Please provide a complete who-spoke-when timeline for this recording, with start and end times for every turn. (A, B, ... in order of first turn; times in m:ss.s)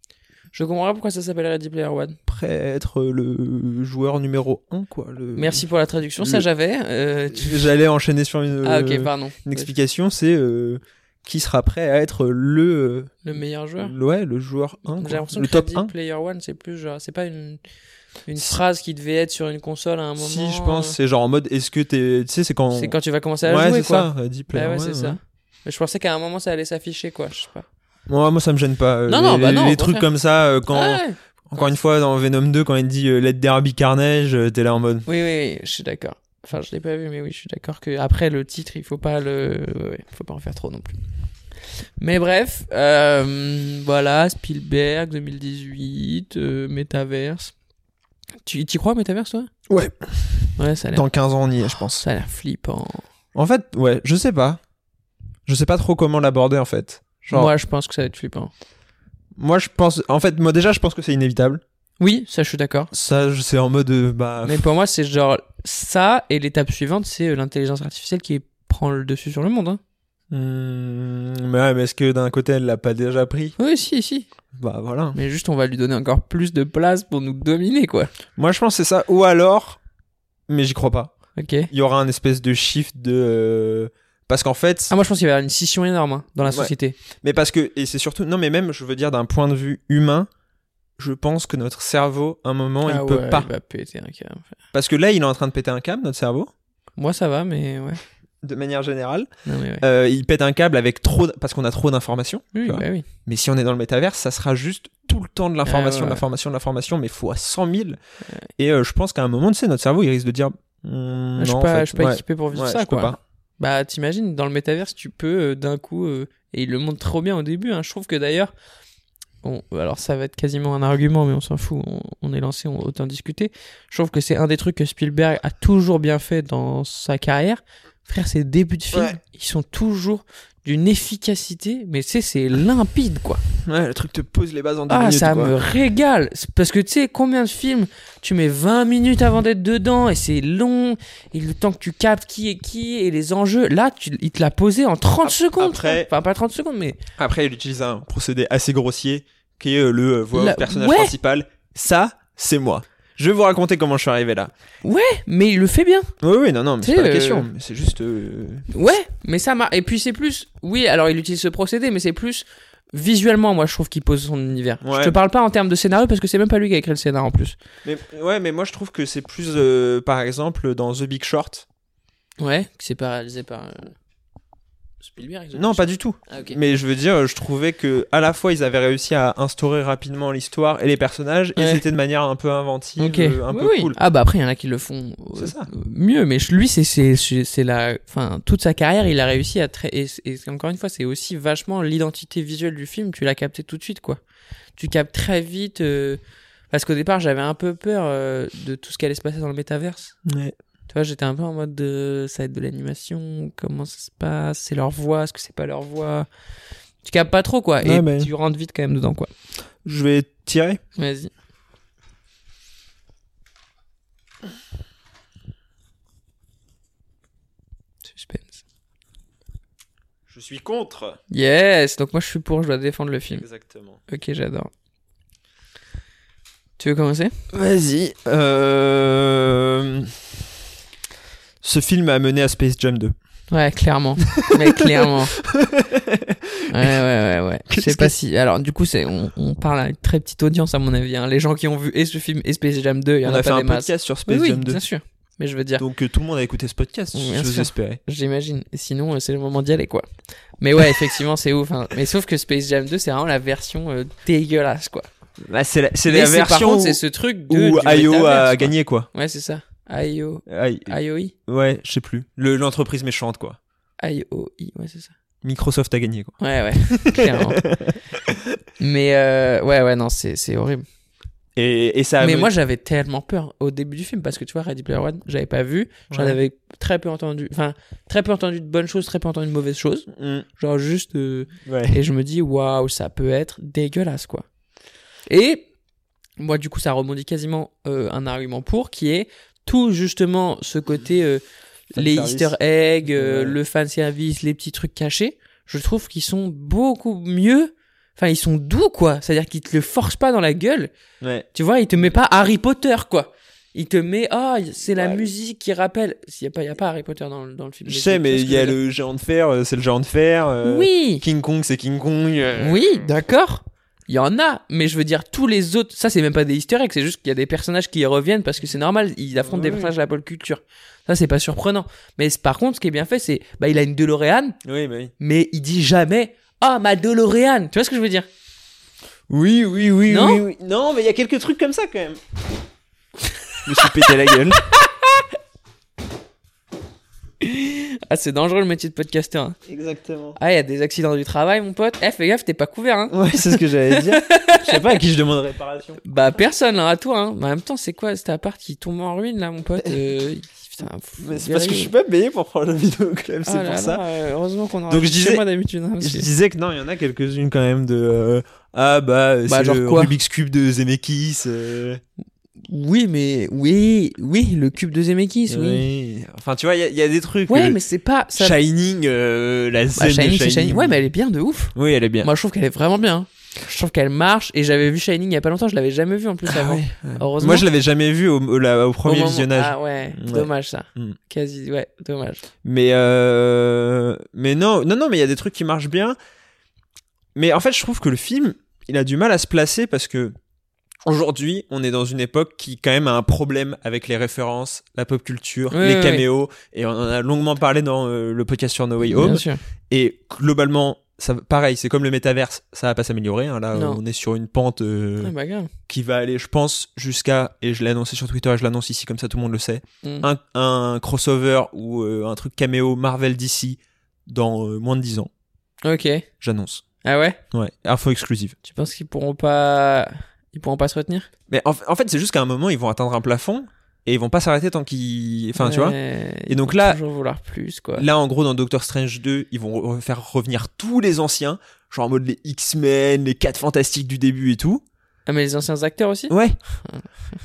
0:00.5-0:02.2 A
0:02.3-0:05.6 B
0:05.4-0:07.7 A
0:06.2-0:06.5 B
0:07.3-0:13.2 B
0:08.6-0:09.7 A
0:13.2-0:13.9 A
0:13.8-0:15.9 B
0:15.0-0:17.6 A
0:18.2-0:21.0 A
0:20.2-0:25.2 B
0:22.7-0:27.7 A
0:28.1-0:35.1 B
0:29.1-0:30.1 A
0:30.7-0:31.7 A
0:35.1-0:41.0 A
0:42.0-0:47.5 A
0:48.4-0:49.5 A
0:49.7-0:52.0 B
0:50.6-0:51.1 A
0:51.7-0:53.0 A
0:53.3-0:54.6 B
0:55.5-0:57.5 B
0:57.3-0:58.5 A
0:59.4-1:01.6 B
1:02.0-1:02.9 A
1:02.9-1:04.6 B
1:04.4-1:09.8 A
1:10.3-1:13.6 B
1:13.6-1:14.3 A
1:14.6-1:15.2 B
1:15.2-1:18.1 A
1:18.4-1:19.8 B
1:20.5-1:24.9 B
1:21.4-1:21.7 A
1:24.9-1:27.0 A
1:26.5-1:30.3 B
1:31.0-1:33.5 B
1:32.9-1:34.5 A
1:34.7-1:36.5 B
1:37.0-1:38.0 A
1:38.4-1:39.3 B
1:39.5-1:39.8 A
1:39.8-1:48.0 B
1:42.6-1:43.1 A
1:45.6-1:46.2 A
1:48.6-1:53.2 B
1:51.4-1:58.5 A
1:59.4-2:13.4 A
2:08.9-2:09.2 B
2:13.6-2:15.6 B
2:14.9-2:27.0 A
2:25.2-2:26.1 B
2:27.2-2:34.5 B
2:30.3-2:31.2 A
2:34.8-2:36.1 A
2:36.2-2:38.7 B
2:36.8-2:37.5 A
2:38.7-2:47.6 A
2:44.8-2:45.2 B
2:47.8-2:51.6 B
2:52.4-2:53.9 A
2:55.0-2:56.6 A
2:55.5-3:04.0 B
3:01.6-3:01.8 A
3:03.0-3:14.2 A
3:05.4-3:05.7 B
3:14.8-3:16.2 A
3:16.7-3:20.2 A
3:20.2-3:20.6 B
3:20.9-3:26.3 A
3:27.0-3:29.3 A
3:27.8-3:28.3 B
3:29.8-3:30.8 B
3:31.0-3:31.3 A
3:38.1-3:38.6 A
3:40.3-3:41.2 B
3:41.3-3:43.5 A
3:43.4-3:44.0 B
3:44.1-3:44.7 A
3:46.8-3:47.3 A
3:47.5-3:50.3 B
3:51.6-3:53.1 B
3:53.5-3:55.4 A
3:54.3-3:56.9 B
3:56.7-4:05.8 A
3:57.7-3:58.1 B
4:03.2-4:04.8 B
4:05.8-4:08.0 B
4:07.1-4:10.1 A
4:10.6-4:15.1 A
4:15.5-4:19.1 B
4:16.1-4:21.3 A
4:20.5-4:21.0 B
4:21.5-4:23.6 B
4:24.0-4:25.1 A
4:25.4-4:28.6 B
4:26.4-4:27.6 A
4:28.8-4:30.8 A
4:31.6-4:32.5 B
4:32.2-4:44.4 A
4:36.1-4:36.4 B
4:40.1-4:40.5 B
4:41.7-4:42.0 B
4:45.3-4:45.7 A
4:46.4-4:51.4 A
4:51.9-5:00.9 A
4:52.0-4:53.6 B
5:01.2-5:01.5 B
5:01.5-5:08.8 A
5:05.0-5:05.2 B
5:07.8-5:13.1 B
5:10.6-5:11.2 A
5:12.6-5:24.6 A
5:19.4-5:19.9 B
5:24.6-5:25.1 B
5:25.2-5:28.3 A
5:29.3-5:32.2 B
5:30.1-5:30.4 A
5:33.6-5:34.6 B
5:33.8-5:34.1 A
5:34.7-5:35.2 A
5:37.4-5:39.6 A
5:39.7-5:40.4 B
5:40.4-5:44.9 A
5:43.1-5:46.0 B
5:46.0-5:51.9 A
5:51.2-5:54.0 B
5:53.4-5:56.3 A
5:54.9-5:55.4 B
5:56.0-6:02.0 B
5:59.5-6:00.1 A
6:02.6-6:05.8 A
6:05.5-6:07.8 B
6:07.5-6:08.6 A
6:08.4-6:11.0 B
6:10.0-6:17.7 A
6:11.8-6:12.3 B
6:16.5-6:21.2 B
6:19.0-6:22.4 A
6:22.6-6:26.2 B
6:27.4-6:30.4 B
6:31.0-6:45.3 B
6:35.7-6:36.2 A
6:39.1-6:39.6 A
6:43.7-6:44.0 A
6:45.2-6:45.7 A
6:45.9-6:55.3 B
6:55.8-6:56.3 A
6:56.4-6:56.8 B
6:57.0-6:57.4 A
6:57.5-6:58.6 B
6:58.6-7:01.3 A
7:01.5-7:07.0 B
7:05.6-7:08.1 A
7:08.0-7:14.8 B
7:15.3-7:16.3 A
7:16.3-7:16.6 B